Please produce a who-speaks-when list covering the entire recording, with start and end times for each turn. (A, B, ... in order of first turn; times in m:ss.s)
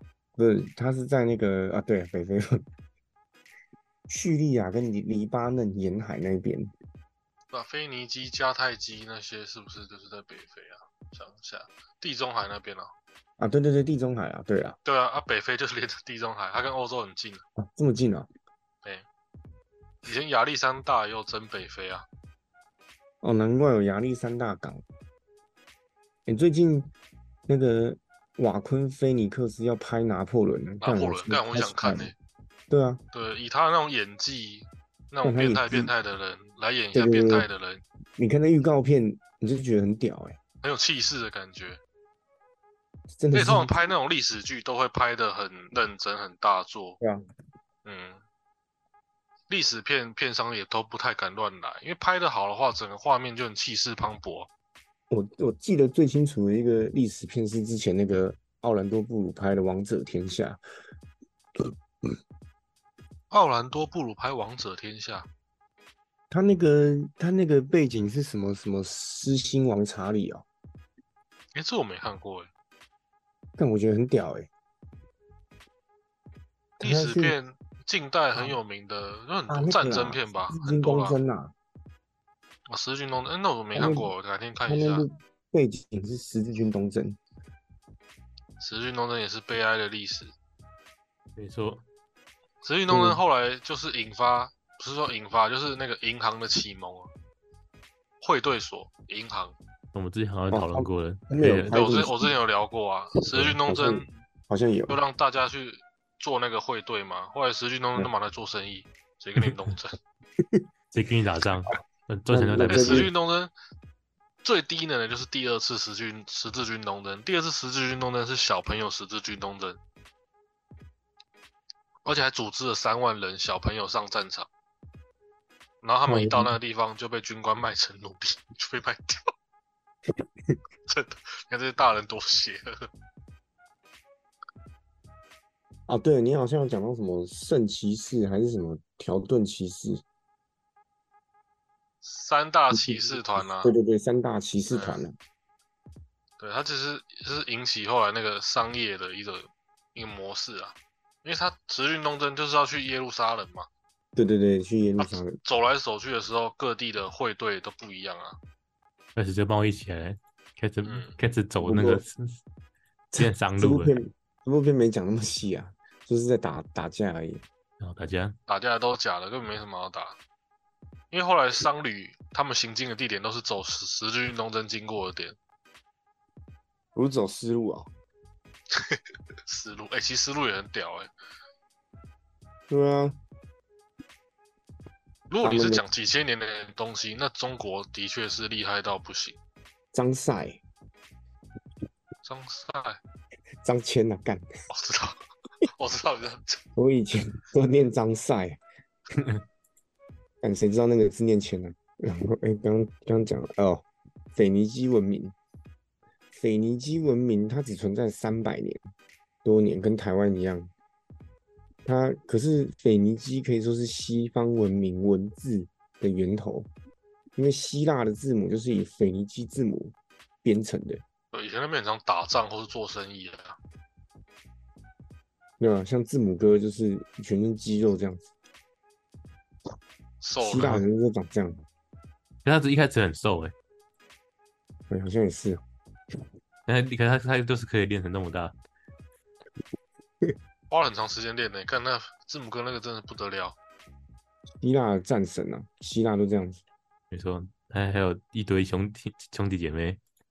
0:00.4-0:02.6 A
0:04.1-0:06.7 A
0:07.5-0:12.9 B
0:13.4-0:14.8 A
0:14.8-0:17.4 B
0:17.6-0:18.3 A
0:20.0-0:22.1 B
0:23.2-0:24.8 A
0:26.3-0:26.9 A
0:27.5-0:32.1 A
0:30.8-0:32.1 B
0:32.7-0:33.0 A
0:33.1-0:37.8 B
0:35.2-0:35.9 A
0:36.9-0:37.5 A
0:38.2-0:40.4 A
0:40.6-0:41.8 B
0:43.2-0:43.9 A
0:43.3-0:47.0 B
0:47.8-0:48.2 B
0:49.5-0:54.5 B
0:55.1-1:00.6 A
1:03.3-1:05.3 B
1:06.3-1:10.5 A
1:11.5-1:12.5 B
1:13.6-1:14.5 A
1:16.8-1:17.4 A
1:16.8-1:21.2 B
1:19.5-1:21.5 A
1:22.7-1:25.1 B
1:23.8-1:24.1 A
1:24.7-1:27.2 A
1:28.6-1:30.4 B
1:31.4-1:31.8 C
1:32.6-1:37.1 B
1:32.9-1:33.2 A
1:38.2-1:39.6 B
1:39.9-1:41.8 C
1:40.5-1:42.3 A
1:41.7-1:44.1 B
1:43.3-1:45.0 A
1:44.9-1:50.0 B
1:50.9-1:53.1 C
1:52.3-1:53.1 A
1:52.6-1:53.5 B
1:54.4-1:59.8 B
2:02.0-2:04.5 B
2:05.8-2:09.2 B
2:06.1-2:06.5 A
2:10.9-2:12.9 B
2:15.9-2:20.0 A
2:22.0-2:23.7 B
2:22.7-2:25.1 A
2:24.7-2:25.0 B
2:26.4-2:33.7 B
2:34.2-2:35.4 A
2:35.0-2:38.4 B
2:39.2-2:42.4 C
2:40.8-2:41.2 B
2:41.6-2:42.0 A
2:43.1-2:44.0 C
2:43.1-2:47.4 A
2:47.8-2:48.4 C
2:48.5-2:50.2 B
2:51.1-2:55.4 B
2:57.0-2:57.9 A
2:58.7-3:01.1 B
3:02.7-3:03.2 A
3:05.3-3:09.4 B
3:05.4-3:05.8 A
3:09.9-3:10.6 A
3:12.2-3:13.0 B
3:13.6-3:14.5 A
3:14.7-3:16.6 B
3:16.8-3:18.6 A
3:20.4-3:25.4 A
3:26.3-3:28.8 A
3:29.4-3:30.7 A
3:31.8-3:36.7 A
3:37.4-3:41.0 A
3:41.3-3:43.6 B
3:45.6-3:48.3 A
3:50.2-3:50.8 B
3:50.4-3:51.6 A
3:52.4-3:53.5 C
3:54.9-3:55.6 A
3:56.7-3:58.6 C
4:00.7-4:03.6 B
4:04.6-4:06.6 A
4:07.1-4:10.0 C